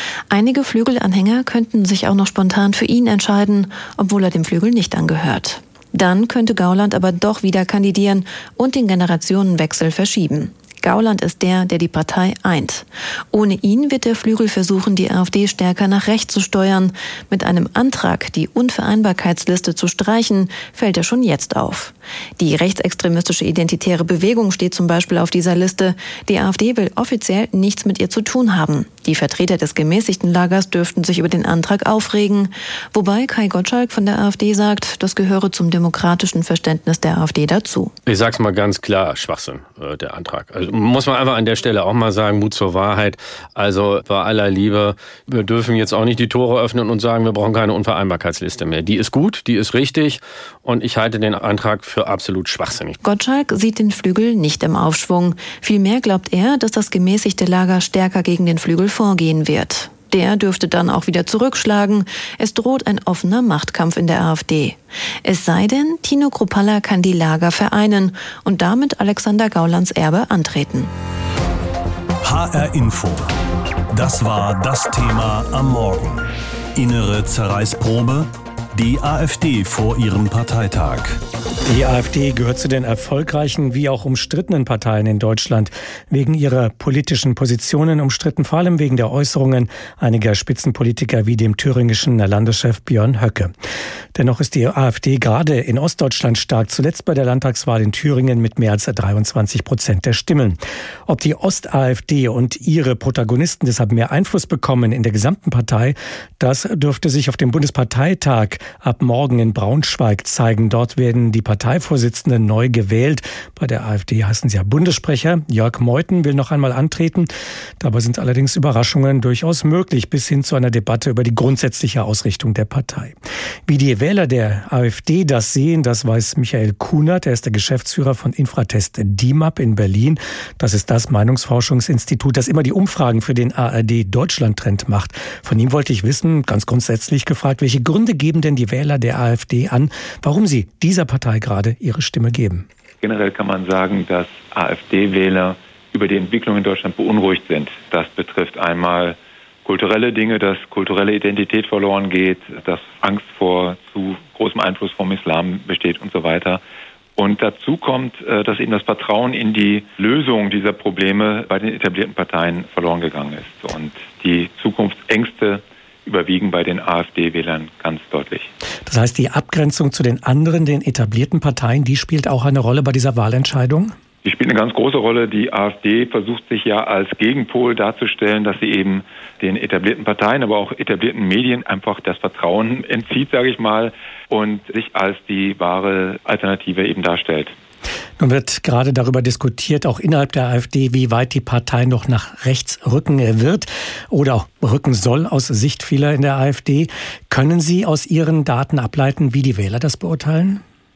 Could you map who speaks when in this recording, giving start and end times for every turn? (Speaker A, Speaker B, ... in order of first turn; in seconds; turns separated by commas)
Speaker A: 0.3-37.9, Speaker B: 38.1-53.0, Speaker A: 53.0-70.9, Speaker C: 72.2-73.4, Speaker C: 73.9-81.2, Speaker D: 81.7-93.5, Speaker D: 94.1-142.7, Speaker E: 143.0-156.6, Speaker E: 157.2-168.5, Speaker D: 168.9-174.0, Speaker E: 174.2-187.5, Speaker D: 188.2-200.6